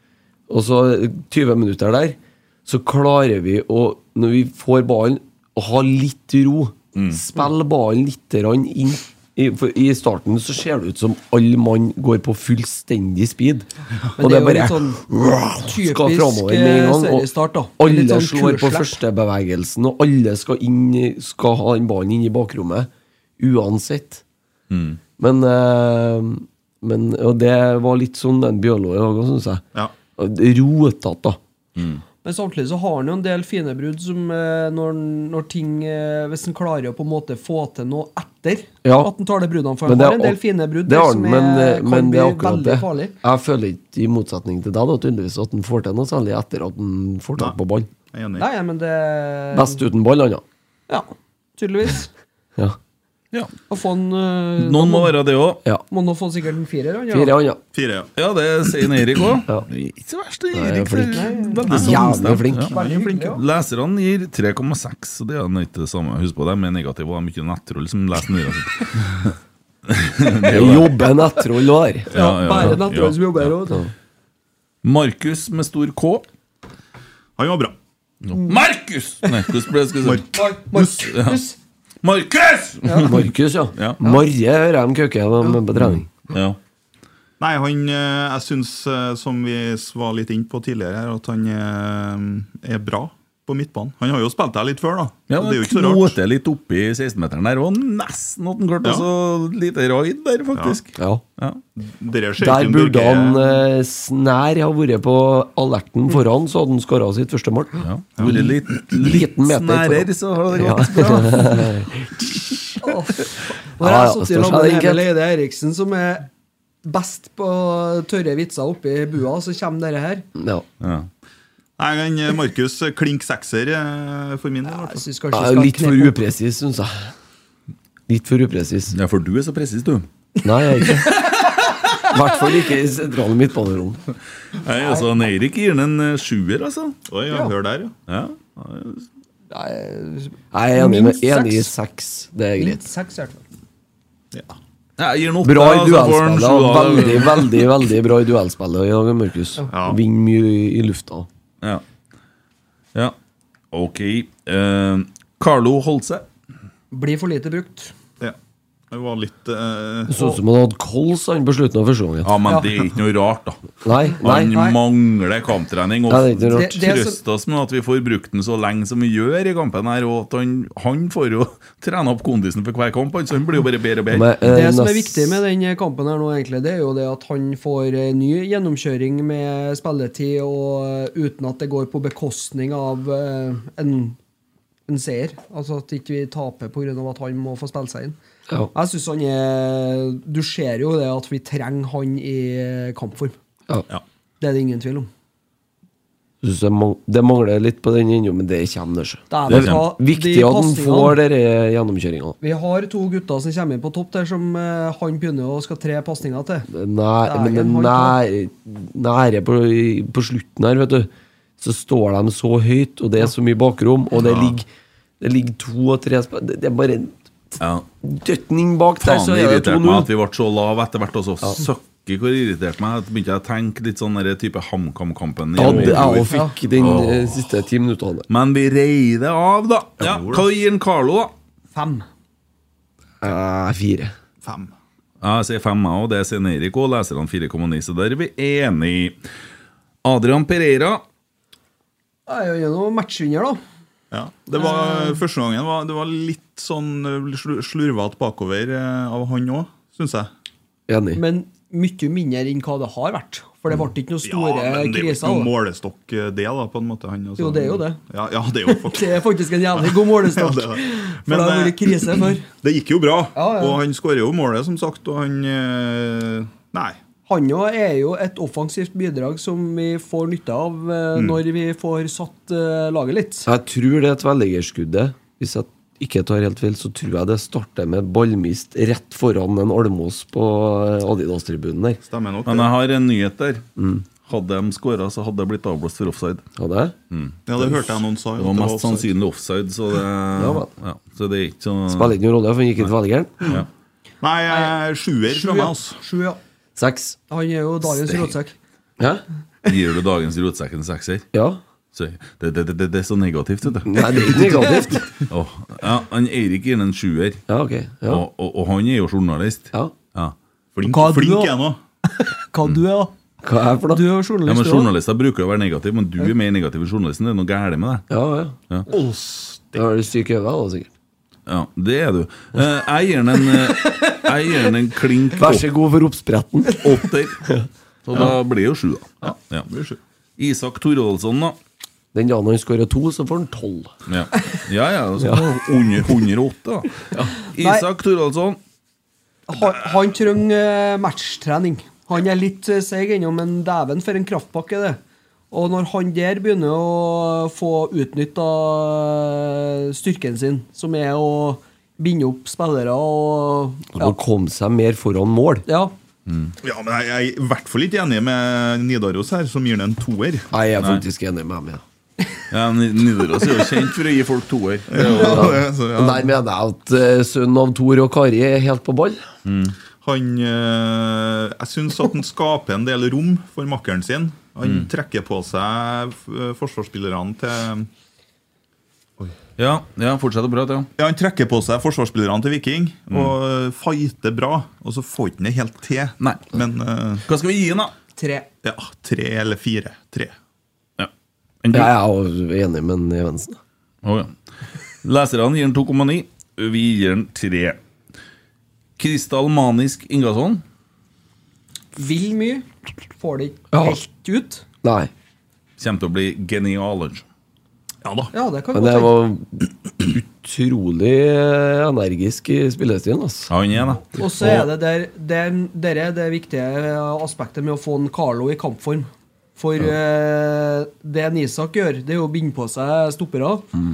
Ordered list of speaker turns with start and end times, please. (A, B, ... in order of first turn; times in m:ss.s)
0:00.5-0:13.7 A
0:06.9-0:07.2 B
0:14.2-0:15.0 C
0:14.2-0:24.2 A
0:15.6-0:19.0 C
0:24.7-0:25.0 B
0:25.2-0:29.6 A
0:30.2-0:31.4 A
0:31.8-0:32.0 B
0:32.2-0:43.1 C
0:38.8-0:39.1 A
0:39.8-0:47.9 A
0:48.1-0:48.5 D
0:48.4-0:49.8 C
0:49.5-0:50.4 A
0:50.9-0:52.1 C
0:53.7-0:55.2 C
0:54.6-0:55.6 B
0:55.9-0:57.4 C
0:57.1-0:57.6 A
0:57.7-0:58.1 D
0:58.2-1:09.3 B
1:00.5-1:02.7 A
1:01.1-1:03.4 C
1:02.7-1:03.1 D
1:09.9-1:11.0 B
1:10.4-1:12.7 A
1:12.1-1:13.5 B
1:12.1-1:13.8 C
1:14.8-1:16.2 B
1:17.4-1:17.7 D
1:18.2-1:20.3 B
1:20.0-1:21.1 D
1:20.3-1:21.6 C
1:21.0-1:21.4 B
1:22.0-1:23.2 B
1:22.8-1:23.2 C
1:23.0-1:26.1 A
1:25.7-1:26.6 B
1:27.4-1:36.2 D
1:35.3-1:41.6 B
1:40.5-1:40.8 D
1:41.0-1:41.2 A
1:41.8-1:43.6 D
1:42.4-1:52.4 A
1:47.8-1:51.6 B
1:48.2-1:48.5 D
1:52.8-1:56.3 C
1:53.8-1:55.0 A
1:56.8-2:00.2 C
2:00.4-2:00.6 A
2:00.8-2:01.1 B
2:01.8-2:05.0 D
2:04.7-2:06.2 C
2:05.3-2:07.1 A
2:08.1-2:08.9 A
2:08.9-2:10.1 B
2:10.4-2:11.3 A
2:10.8-2:11.5 C
2:12.0-2:14.0 A
2:14.6-2:17.0 B
2:17.1-2:17.9 D
2:17.3-2:17.5 C
2:18.1-2:19.0 B
2:19.5-2:21.7 C
2:20.5-2:22.8 A
2:22.6-2:23.4 C
2:25.0-2:27.7 B
2:25.4-2:31.3 A
2:29.7-2:30.0 D
2:33.7-2:36.2 B
2:36.9-2:37.9 C
2:38.9-2:40.2 D
2:40.1-2:42.5 A
2:42.2-2:43.6 B
2:42.4-2:42.7 C
2:43.8-2:44.6 A
2:44.2-2:54.3 B
2:44.5-2:44.8 C
2:46.1-2:46.9 A
2:46.5-2:47.2 C
2:54.1-2:55.4 A
2:54.5-3:04.2 C
3:04.9-3:08.2 C
3:08.7-3:13.3 C
3:14.4-3:15.1 C
3:16.4-3:22.4 A
3:19.3-3:21.2 C
3:19.5-3:19.8 B
3:22.4-3:26.7 C
3:26.7-3:34.7 A
3:27.2-3:28.2 C
3:34.2-3:34.5 D
3:35.2-3:37.2 A
3:37.6-3:37.8 B
3:38.0-3:40.1 A
3:39.0-3:47.4 B
3:45.5-3:48.3 A
3:45.8-3:46.6 C
3:48.3-3:51.3 B
3:50.0-3:50.4 D
3:51.7-3:52.0 C
3:53.2-3:54.1 A
3:54.4-3:54.7 D
3:55.2-3:59.1 B
4:00.0-4:01.0 B
4:02.3-4:03.6 C
4:04.1-4:10.3 D
4:04.5-4:05.2 C
4:10.9-4:11.2 A
4:11.1-4:15.5 C
4:14.2-4:19.2 D
4:17.4-4:18.0 C
4:18.7-4:22.4 C
4:19.8-4:27.0 D
4:23.3-4:23.8 C
4:27.3-4:33.5 C
4:33.4-4:42.0 A
4:42.0-4:42.7 D
4:42.4-4:43.6 B
4:43.8-4:44.0 A
4:44.2-4:46.4 B
4:46.6-4:46.9 A
4:47.1-4:47.4 B
4:47.5-4:49.1 D
4:48.4-4:52.1 B
4:50.4-4:50.7 A
4:51.9-4:53.5 A
4:54.2-4:56.0 D
4:55.3-4:56.4 C
4:56.8-4:57.2 A
4:57.3-4:58.5 C
4:59.0-4:59.2 A
4:59.6-5:01.2 B
5:01.3-5:01.6 A
5:01.9-5:04.6 B
5:03.8-5:05.0 A
5:04.6-5:05.0 C
5:05.3-5:07.4 B
5:07.5-5:08.2 A
5:08.1-5:10.3 B
5:10.8-5:11.8 D
5:10.8-5:13.1 C
5:13.4-5:14.0 A
5:13.9-5:14.9 C
5:14.4-5:18.0 B
5:18.1-5:18.6 A
5:18.9-5:19.8 D
5:19.7-5:20.9 A
5:21.5-5:25.6 B
5:25.3-5:26.8 A
5:26.8-5:27.4 B
5:27.4-5:28.3 A
5:28.0-5:29.6 B
5:29.2-5:30.0 D
5:30.4-5:31.6 B
5:32.1-5:33.9 A
5:34.1-5:38.6 B
5:35.2-5:35.4 A
5:37.6-5:37.8 C
5:39.5-5:45.0 C
5:45.5-5:54.1 C
5:53.9-5:55.6 A
5:55.6-5:55.9 C
5:56.3-5:56.5 B
5:56.6-6:00.5 D
6:00.5-6:01.8 A
6:02.5-6:05.5 B
6:04.9-6:06.3 D
6:05.0-6:09.2 A
6:09.4-6:09.7 B
6:10.0-6:17.9 D
6:19.6-6:20.9 B
6:21.0-6:27.2 D
6:26.2-6:26.4 B
6:27.3-6:27.9 B
6:28.2-6:28.5 C
6:28.6-6:30.3 D
6:31.6-6:31.9 B
6:31.7-6:33.6 A
6:34.0-6:34.3 B
6:35.0-6:37.8 B
6:39.0-6:40.6 B
6:42.0-6:42.6 C
6:43.2-6:44.6 C
6:43.7-6:44.0 A
6:44.8-6:45.1 A
6:45.8-6:47.2 B
6:48.0-6:48.3 D
6:48.3-6:49.1 C
6:48.7-6:53.5 A
6:53.5-6:54.6 B
6:54.1-7:03.7 C